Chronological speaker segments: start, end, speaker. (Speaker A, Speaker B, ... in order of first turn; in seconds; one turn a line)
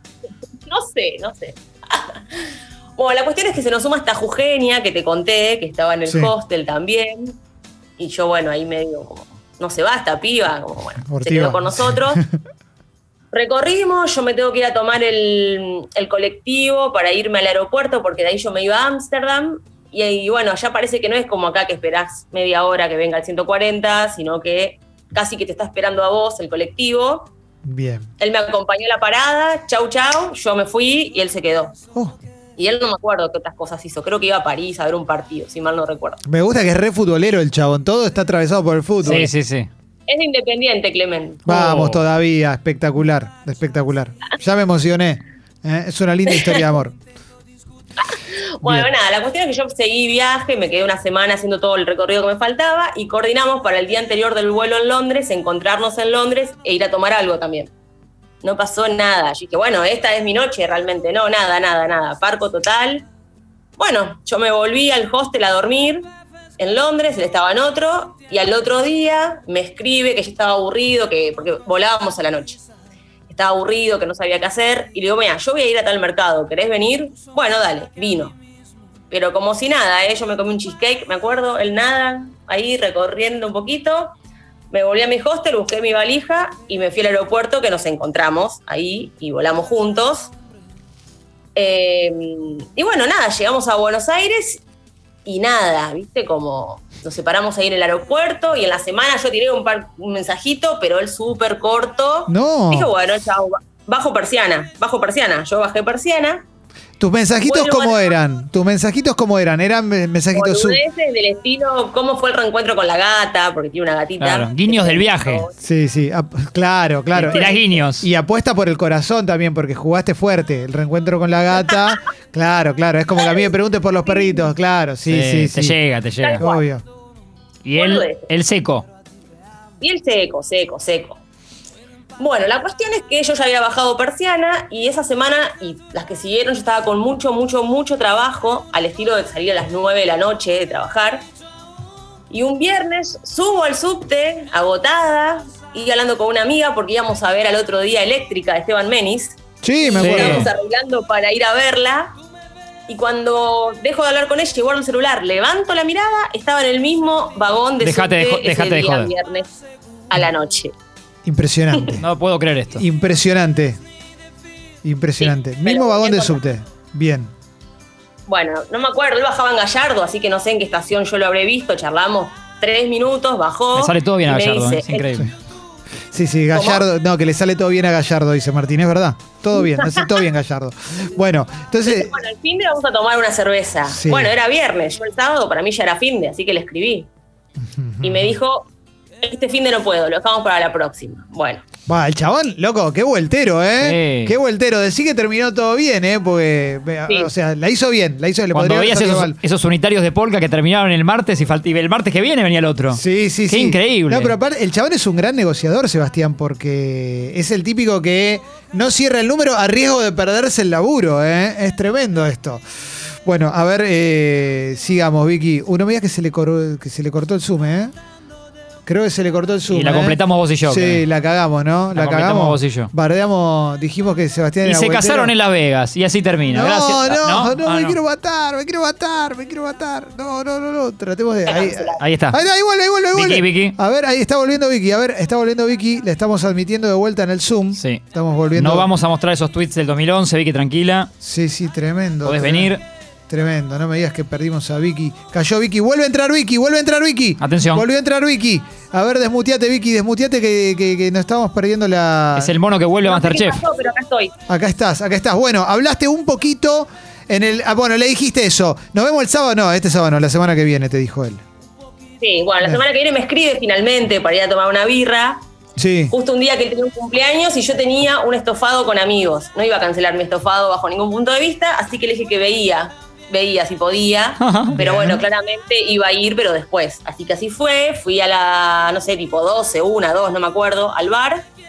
Speaker A: 0.7-7.4
Speaker A: 8.0-12.2
Speaker B: 11.0-12.3
Speaker A: 13.3-27.3
Speaker B: 27.6-28.1
Speaker A: 28.2-31.8
Speaker A: 32.6-36.2
Speaker B: 36.2-39.3
Speaker C: 39.0-39.7
Speaker A: 40.1-41.5
Speaker B: 41.5-47.0
Speaker C: 41.5-42.0
Speaker A: 48.0-57.7
Speaker B: 48.6-48.9
Speaker A: 58.4-63.1
Speaker A: 63.8-72.6
Speaker A: 73.3-78.4
Speaker A: 79.1-84.1
Speaker A: 84.7-90.3
Speaker A: 91.5-94.6
Speaker A: 95.2-106.5
Speaker B: 102.3-102.9
Speaker B: 107.0-110.8
Speaker A: 107.4-108.2
Speaker A: 110.3-115.5
Speaker C: 114.2-115.5
Speaker B: 115.6-125.8
Speaker C: 117.1-118.0
Speaker A: 117.3-117.7
Speaker C: 125.1-126.4
Speaker A: 126.2-126.6
Speaker B: 126.4-126.8
Speaker C: 127.6-128.8
Speaker A: 127.8-128.3
Speaker A: 129.8-131.2
Speaker A: 132.2-141.3
Speaker A: 142.3-152.2
Speaker B: 149.6-150.5
Speaker C: 150.0-150.5
Speaker A: 152.9-159.5
Speaker C: 157.8-159.1
Speaker A: 160.1-160.7
Speaker B: 161.2-162.0
Speaker C: 162.0-162.8
Speaker B: 162.8-163.8
Speaker B: 164.8-167.3
Speaker A: 165.2-166.4
Speaker A: 168.3-175.2
Speaker C: 173.8-175.3
Speaker B: 176.1-182.1
Speaker A: 176.5-176.8
Speaker A: 179.7-180.1
Speaker A: 181.8-187.1
Speaker B: 183.9-184.3
Speaker B: 187.6-188.3
Speaker A: 188.0-188.7
Speaker A: 189.2-191.6
Speaker B: 191.9-199.4
Speaker C: 193.8-194.3
Speaker C: 198.5-204.3
Speaker B: 202.9-217.9
Speaker B: 218.8-225.3
Speaker C: 219.7-221.0
Speaker C: 221.9-222.9
Speaker C: 224.6-228.0
Speaker B: 226.5-238.9
Speaker A: 231.4-232.0
Speaker C: 232.0-232.4
Speaker C: 233.1-233.8
Speaker C: 237.8-238.0
Speaker C: 238.5-241.1
Speaker B: 241.2-242.8
Speaker C: 242.2-242.8
Speaker B: 243.3-252.5
Speaker C: 247.4-247.8
Speaker C: 252.3-253.6
Speaker A: 253.0-254.3
Speaker B: 254.5-261.4
Speaker A: 262.2-265.4
Speaker B: 265.8-266.1
Speaker A: 266.1-281.4
Speaker C: 274.4-274.8
Speaker B: 274.7-275.2